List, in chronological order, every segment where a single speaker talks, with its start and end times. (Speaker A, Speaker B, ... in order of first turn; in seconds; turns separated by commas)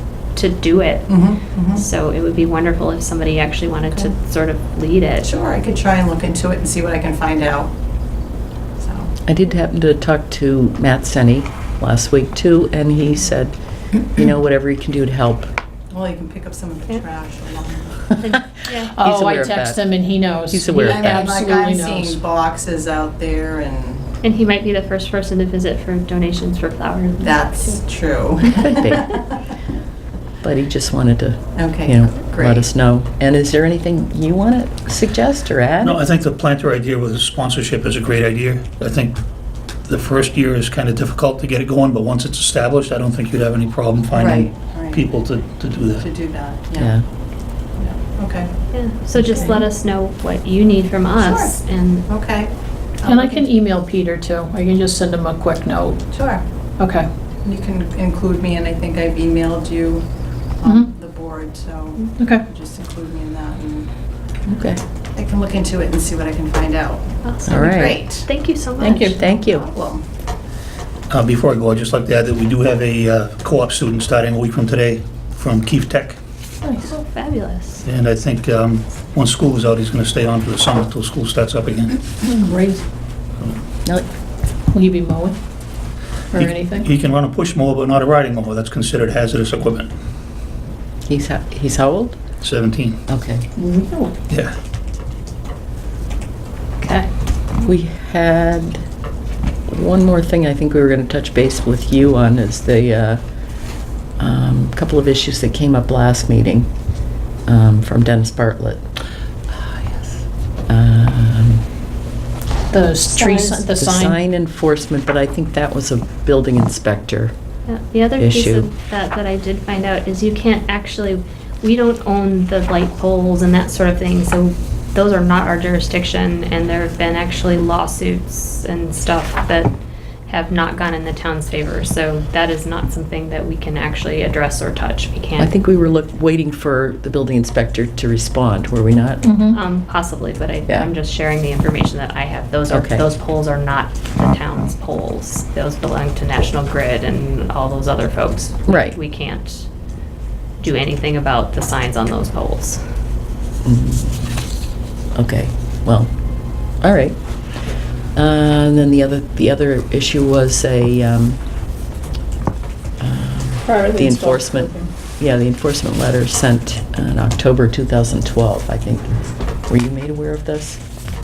Speaker A: 0.3-1.2, Speaker B: 1.1-1.9, Speaker A: 1.8-5.3, Speaker B: 5.2-7.7, Speaker B: 8.8-9.1, Speaker C: 9.2-13.6, Speaker C: 14.1-15.5, Speaker B: 15.9-18.1, Speaker A: 18.2-18.9, Speaker D: 18.9-22.2, Speaker C: 19.0-19.9, Speaker C: 20.4-21.3, Speaker B: 20.8-24.1, Speaker A: 24.2-27.4, Speaker B: 27.2-29.3, Speaker C: 28.6-29.1, Speaker C: 30.4-36.0, Speaker B: 31.5-32.7, Speaker E: 35.8-39.2, Speaker E: 39.8-46.0, Speaker B: 44.1-45.0, Speaker B: 46.0-46.9, Speaker C: 46.8-47.0, Speaker B: 47.8-48.5, Speaker A: 48.7-52.0, Speaker B: 49.2-49.6, Speaker B: 51.1-53.5, Speaker D: 53.0-56.0, Speaker B: 56.1-56.4, Speaker D: 56.8-57.1, Speaker B: 57.4-60.0, Speaker B: 60.6-63.9, Speaker D: 60.6-60.9, Speaker D: 62.2-62.4, Speaker C: 64.4-64.8, Speaker B: 65.1-68.3, Speaker A: 67.2-69.1, Speaker C: 67.5-68.0, Speaker D: 68.8-69.1, Speaker B: 68.9-70.0, Speaker C: 69.1-69.7, Speaker E: 71.1-76.2, Speaker D: 76.6-76.9, Speaker A: 76.8-77.8, Speaker E: 77.8-82.0, Speaker D: 82.2-82.8, Speaker D: 84.7-85.4, Speaker D: 86.3-86.9, Speaker E: 86.3-89.9, Speaker C: 91.1-92.2, Speaker E: 92.4-93.0, Speaker C: 93.1-93.5, Speaker D: 93.5-94.1, Speaker E: 94.3-94.5, Speaker D: 96.8-97.1, Speaker C: 97.6-98.8, Speaker C: 99.7-103.2, Speaker C: 104.2-106.7, Speaker C: 107.5-108.8, Speaker C: 110.7-111.7, Speaker D: 112.7-114.2, Speaker A: 113.2-113.7, Speaker C: 113.7-117.3, Speaker A: 117.7-129.7, Speaker C: 118.2-118.7, Speaker A: 130.2-135.5, Speaker C: 135.4-139.3, Speaker D: 139.2-139.6, Speaker A: 139.5-149.7, Speaker C: 142.7-143.1, Speaker C: 148.7-149.0, Speaker A: 150.6-152.8, Speaker C: 153.6-154.4, Speaker C: 155.1-156.1, Speaker C: 156.7-157.5, Speaker C: 158.1-161.4, Speaker C: 163.0-169.1, Speaker D: 163.7-164.9, Speaker C: 169.7-170.8